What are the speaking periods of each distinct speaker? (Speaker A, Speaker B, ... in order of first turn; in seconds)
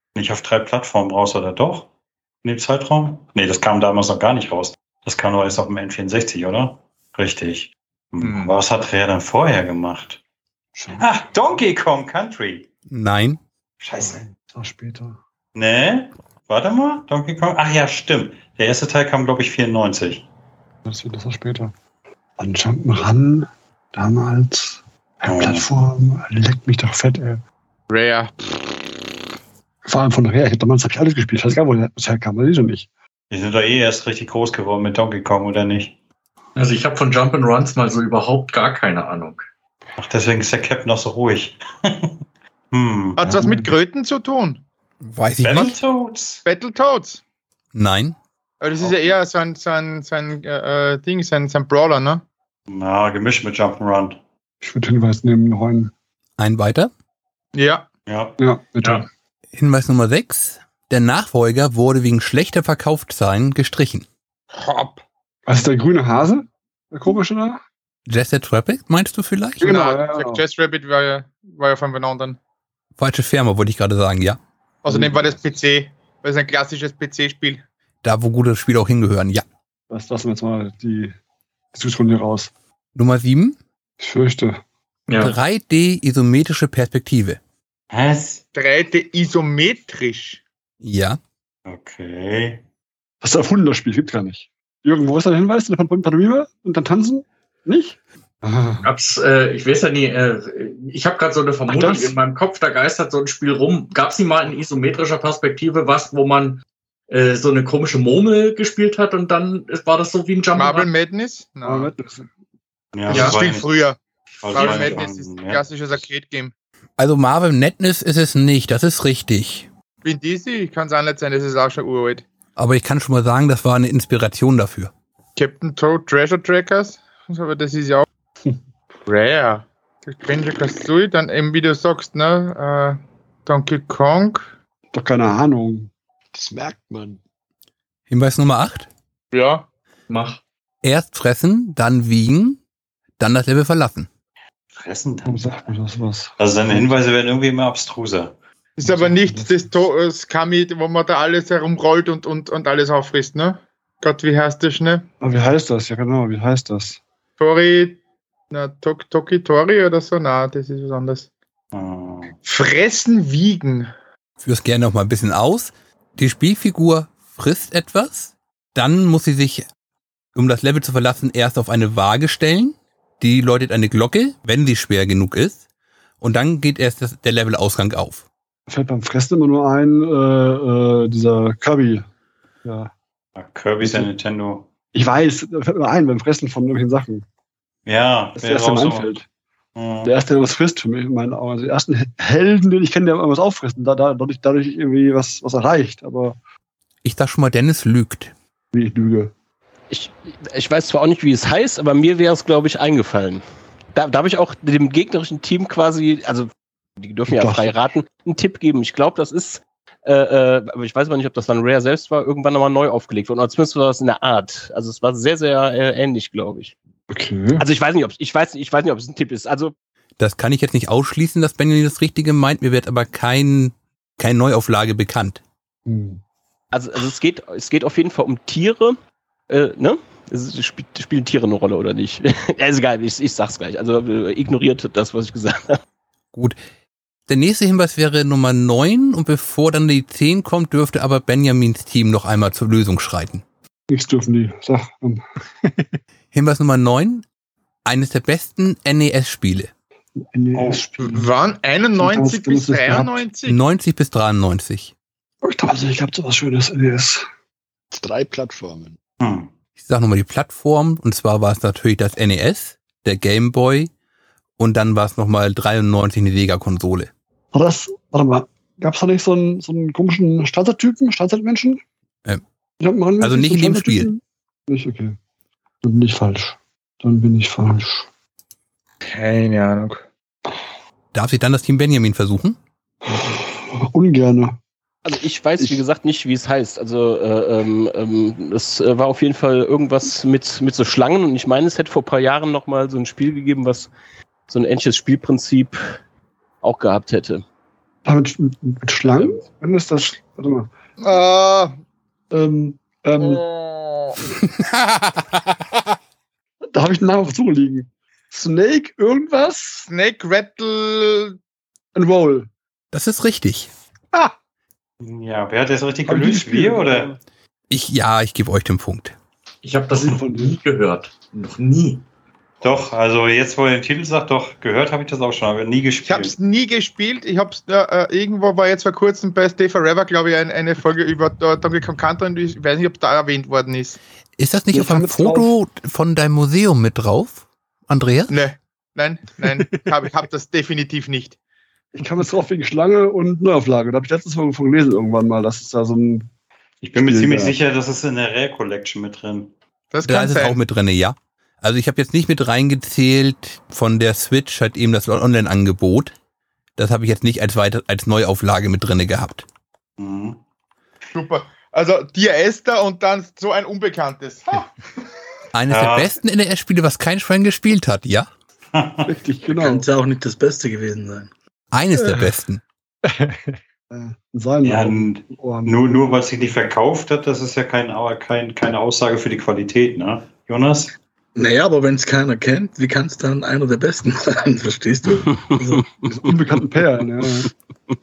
Speaker A: 0.1-1.9, 2.4-10.2, 10.9-12.7, 13.8-14.2, 15.5-20.2, 25.3-25.6, 33.3-36.0, 40.0-42.1, 42.7-43.5, 45.4-46.4, 52.7-54.2, 58.1-58.3, 87.9-88.4, 91.7-92.6, 112.9-113.7, 114.4-115.6, 144.7-145.6, 146.4-148.3, 161.7-162.3, 183.3-184.7, 187.8-189.1, 189.7-190.1, 250.5-250.9, 259.2-259.5, 315.0-317.1, 322.6-326.3, 346.8-349.5, 360.0-360.4, 365.7-366.2, 368.7-369.1, 374.6-380.9
Speaker B: 8.2-8.5, 27.9-28.5, 43.1-44.6, 46.4-47.2, 48.6-52.2, 57.5-57.9, 64.5-65.0, 69.6-72.4, 74.8-77.6, 88.5-90.4, 110.5-111.9, 113.1-114.0, 114.5-116.5, 120.0-122.2, 125.4-128.1, 129.1-134.5, 139.3-139.7, 148.8-155.1, 157.4-158.0, 158.5-161.3, 162.4-163.9, 251.0-253.6, 279.0-280.0, 301.0-301.8, 303.2-304.2, 309.9-311.4, 326.0-334.0, 338.3-341.4, 349.9-350.6, 361.1-364.7
Speaker C: 10.7-11.2, 14.0-15.2, 20.8-21.7, 22.4-27.4, 29.8-32.9, 43.4-43.7, 54.6-55.9, 58.4-59.1, 65.5-67.6, 69.6-70.4, 74.9-75.4, 79.9-81.1, 81.7-82.5, 84.0-84.6, 93.2-98.9, 101.7-102.2, 111.6-112.3, 113.1-113.4, 134.9-135.9, 145.2-147.0, 148.8-149.7, 155.2-157.0, 178.7-182.1, 182.6-182.9, 183.8-184.1, 184.9-187.2, 188.3-189.2, 190.0-196.4, 198.7-199.3, 207.3-207.8, 217.1-217.6, 225.8-226.2, 243.9-245.2, 250.2-251.3, 252.0-253.3, 255.4-257.2, 267.5-271.8, 272.8-275.2, 275.8-278.1, 283.0-284.6, 298.0-300.7, 302.3-303.4, 306.7-309.9, 311.9-312.5, 316.1-317.2, 319.9-320.6, 334.7-335.5, 341.9-346.3, 347.0-347.6, 369.0-369.9, 373.9-376.1, 385.7-387.5
Speaker D: 12.9-13.4, 45.0-45.8, 47.7-48.1, 56.4-56.9, 59.5-64.0, 68.1-69.7, 73.0-74.4, 78.0-79.4, 82.9-83.6, 85.2-87.4, 90.8-91.2, 117.0-119.7, 122.6-124.9, 138.1-138.9, 140.8-142.6, 143.2-144.1, 164.4-169.6, 170.3-175.6, 176.2-178.2, 197.0-198.3, 220.2-225.4, 237.3-243.4, 246.3-247.2, 247.8-249.7, 253.4-254.9, 259.8-263.9, 264.6-267.1, 273.2-274.1, 281.1-282.6, 312.9-313.7, 317.7-319.1, 334.4-338.3, 350.0-356.1, 356.8-359.4, 365.5-368.3, 371.7-372.6
Speaker E: 36.5-39.4, 85.1-85.4, 98.8-110.9, 114.6-114.9, 140.1-140.4, 319.6-322.0
Speaker F: 136.3-137.2, 257.9-259.0
Speaker G: 199.9-203.4, 203.9-216.7, 217.6-219.7, 226.7-229.0, 229.5-235.8, 285.0-293.9, 294.5-296.0, 296.6-297.4, 385.6-386.3
Speaker H: 369.6-371.3, 381.4-385.4